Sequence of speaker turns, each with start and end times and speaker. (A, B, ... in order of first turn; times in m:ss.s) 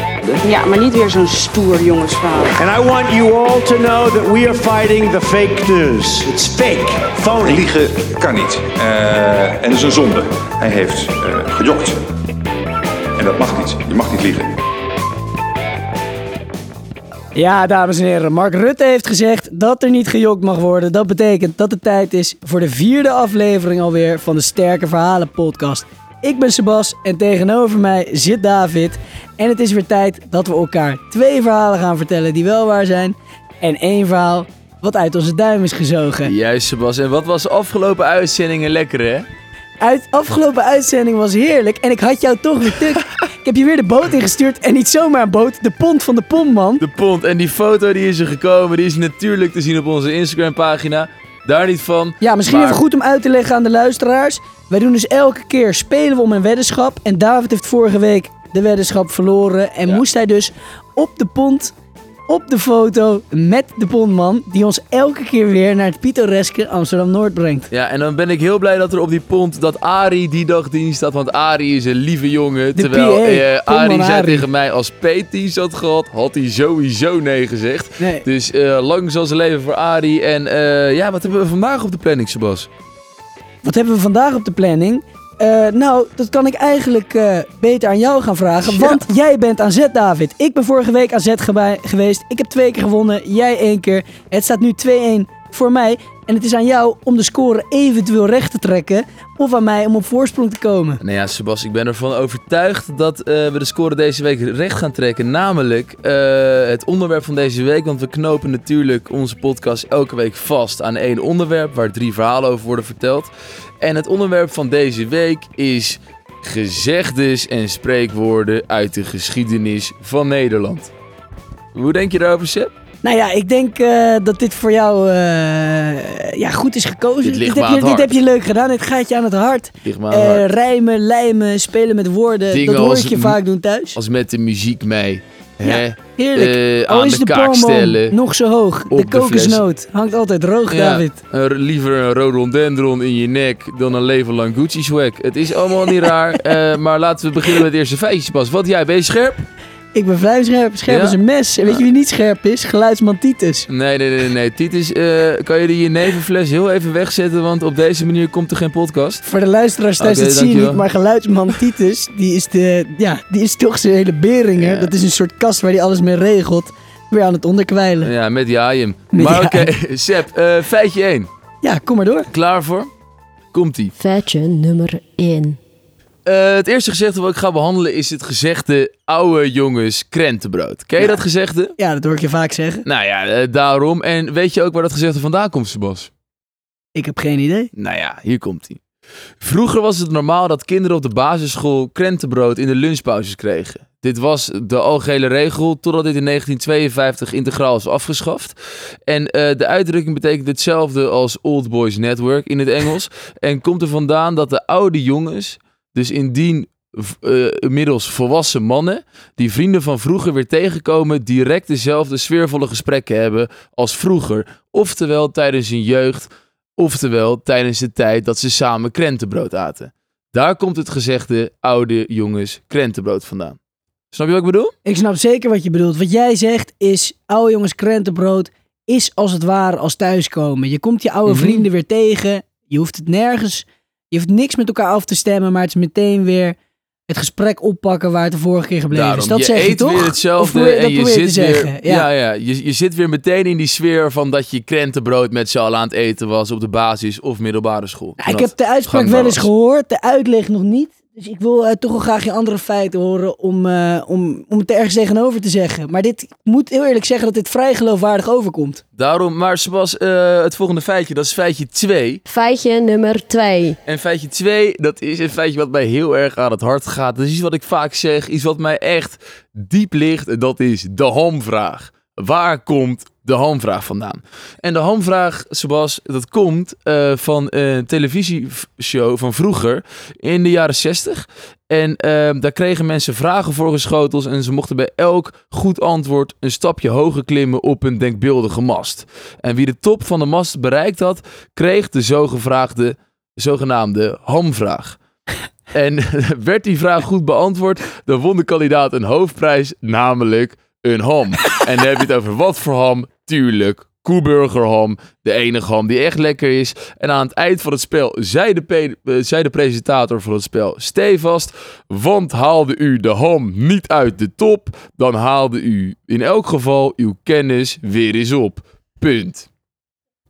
0:00.3-0:03.2 A
0:02.6-0:07.7 B
0:07.4-0:12.0 C
0:13.2-0:14.6 C
0:17.4-0:36.3 D
0:36.2-0:39.3 E
0:39.8-0:46.8 D
0:46.8-0:52.8 E
0:52.2-1:01.7 D
1:02.3-1:07.7 D
1:07.7-1:22.7 E
1:12.8-1:14.5 D
1:18.0-1:18.2 D
1:23.6-1:41.0 D
1:28.6-1:29.0 E
1:41.0-2:00.9 E
2:01.8-2:02.7 E
2:03.0-2:14.0 D
2:07.2-2:08.2 E
2:09.8-2:10.5 E
2:12.5-2:13.4 E
2:14.0-2:18.2 E
2:15.6-2:21.2 D
2:18.9-2:19.6 E
2:20.7-2:29.4 E
2:29.9-2:33.7 D
2:30.9-2:31.2 E
2:33.7-2:39.2 E
2:39.2-2:48.1 D
2:40.0-2:40.8 E
2:44.6-2:44.9 E
2:48.0-2:51.3 E
2:49.1-2:49.7 D
2:51.6-2:52.3 D
2:52.3-2:52.9 E
2:53.5-2:53.9 E
2:54.0-2:55.6 F
2:56.3-3:01.8 E
3:01.8-3:02.8 D
3:02.8-3:06.1 E
3:07.0-3:07.7 D
3:07.7-3:08.8 E
3:09.4-3:43.6 E
3:44.1-3:44.7 E
3:44.8-3:56.6 D
3:51.3-3:51.6 E
3:57.1-4:02.1 D
3:58.9-4:09.5 E
4:08.2-4:18.8 D
4:19.0-4:22.2 E
4:22.3-4:23.8 F
4:23.9-4:55.0 E
4:55.7-5:19.5 E